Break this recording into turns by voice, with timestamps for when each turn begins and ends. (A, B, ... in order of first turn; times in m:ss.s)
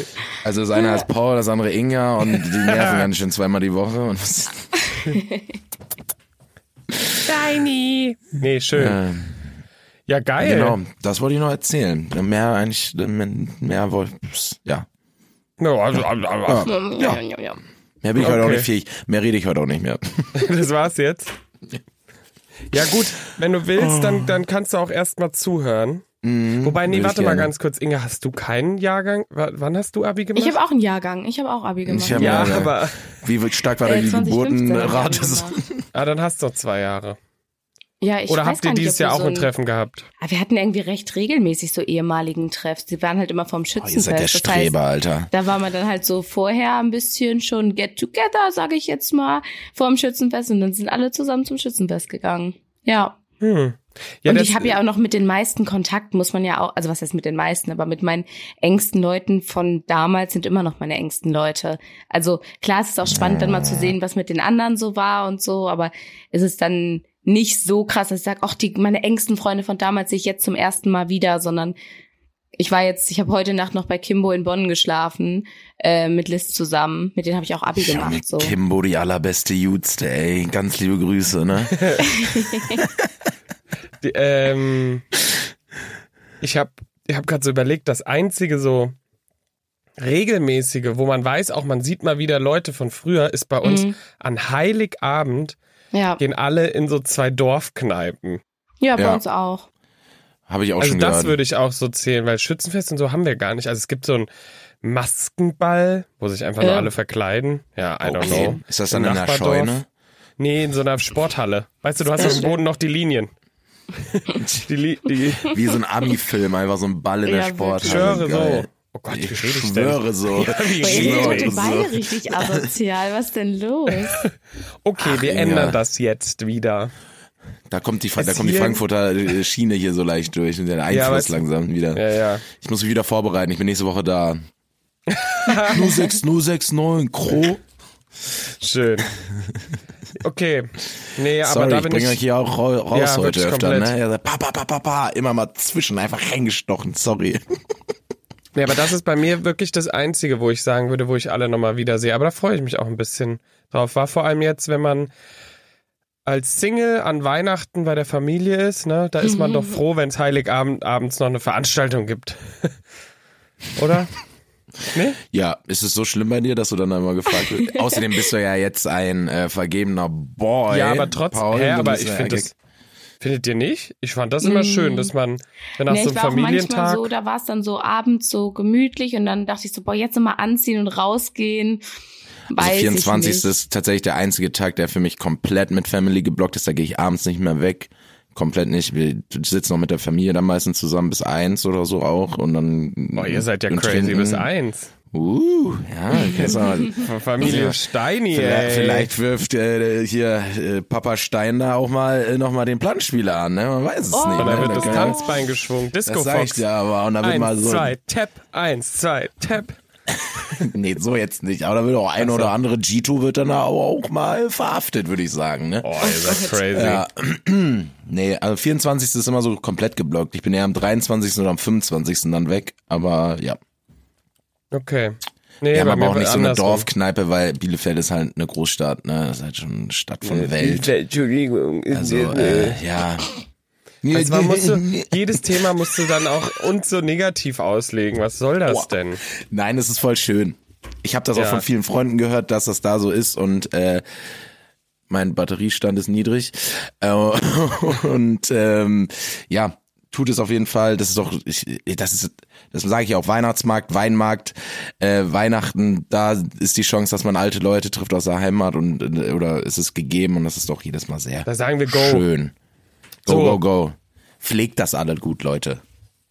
0:00.4-0:04.7 A
0:00.8-0:01.0 B
0:02.4-0:03.1 C
0:05.0-0:05.5 B
0:07.2-0:09.0 C
0:08.7-0:09.4 A
0:10.1-0:10.8 C
0:10.4-0:14.8 A
0:15.6-0:16.7 C
0:16.4-0:17.2 A
0:16.6-0:17.6 B
0:18.0-0:20.5 A
0:18.2-0:18.7 C
0:20.4-0:21.3 C
0:22.7-0:26.0 C
0:23.7-0:24.4 A
0:26.2-0:27.5 A
0:26.6-0:30.6 C
0:30.3-0:32.7 B
0:31.8-0:35.9 A
0:32.1-0:33.0 C
0:33.8-0:35.6 B
0:35.9-0:37.2 C
0:38.0-0:39.5 B
0:38.3-0:40.0 C
0:40.2-0:44.7 B
0:43.8-0:45.3 A
0:45.3-0:53.2 B
0:53.4-0:54.8 C
0:54.2-1:11.8 B
1:03.2-1:03.9 A
1:12.6-1:18.5 B
1:17.8-1:22.0 A
1:21.7-1:22.0 C
1:22.0-1:22.8 B
1:22.8-1:23.1 A
1:24.0-1:25.0 C
1:26.4-1:28.9 C
1:30.0-1:35.6 C
1:33.6-1:34.0 B
1:35.9-1:36.2 B
1:36.2-1:38.4 C
1:38.8-1:39.7 B
1:40.5-1:41.4 A
1:40.8-1:44.3 C
1:44.8-1:49.7 C
1:46.6-1:46.9 B
1:48.0-1:49.8 A
1:48.2-1:48.5 B
1:50.4-1:53.3 C
1:52.2-1:52.6 B
1:54.0-1:55.6 C
1:54.4-1:54.7 A
1:55.4-2:02.6 A
1:57.2-1:58.1 B
1:57.8-2:01.6 C
2:00.8-2:04.2 B
2:04.8-2:06.9 C
2:05.0-2:05.8 A
2:07.7-2:14.4 A
2:08.2-2:08.8 C
2:10.9-2:12.4 C
2:15.1-2:16.0 C
2:15.6-2:17.6 A
2:18.6-2:19.1 C
2:20.2-2:22.2 C
2:21.4-2:27.4 A
2:22.9-2:23.9 C
2:28.5-2:35.1 C
2:36.2-2:42.7 C
2:39.2-2:39.8 B
2:43.7-2:44.2 C
2:44.9-2:45.2 C
2:45.2-2:52.5 A
2:47.6-2:48.0 B
2:50.7-2:52.5 C
2:53.2-2:57.1 C
2:54.4-2:55.1 B
2:55.8-3:01.8 B
3:02.5-3:03.5 B
3:02.6-3:14.5 A
3:13.2-3:14.9 C
3:15.1-3:17.8 A
3:16.1-3:16.6 B
3:16.9-3:19.1 C
3:18.3-3:25.5 A
3:24.1-3:25.4 B
3:24.4-3:26.6 C
3:26.0-3:27.9 A
3:27.2-3:29.8 C
3:30.6-3:43.6 A
3:32.2-3:32.5 C
3:35.8-3:37.0 C
3:44.7-3:46.9 C
3:45.7-3:50.9 A
3:50.2-3:52.8 C
3:51.9-3:53.3 A
3:54.0-3:55.6 A
3:54.1-3:59.2 C
3:58.6-4:04.0 A
4:01.3-4:01.6 C
4:05.1-4:22.5 A
4:21.4-4:22.3 C
4:23.2-4:25.8 A
4:23.3-4:23.6 C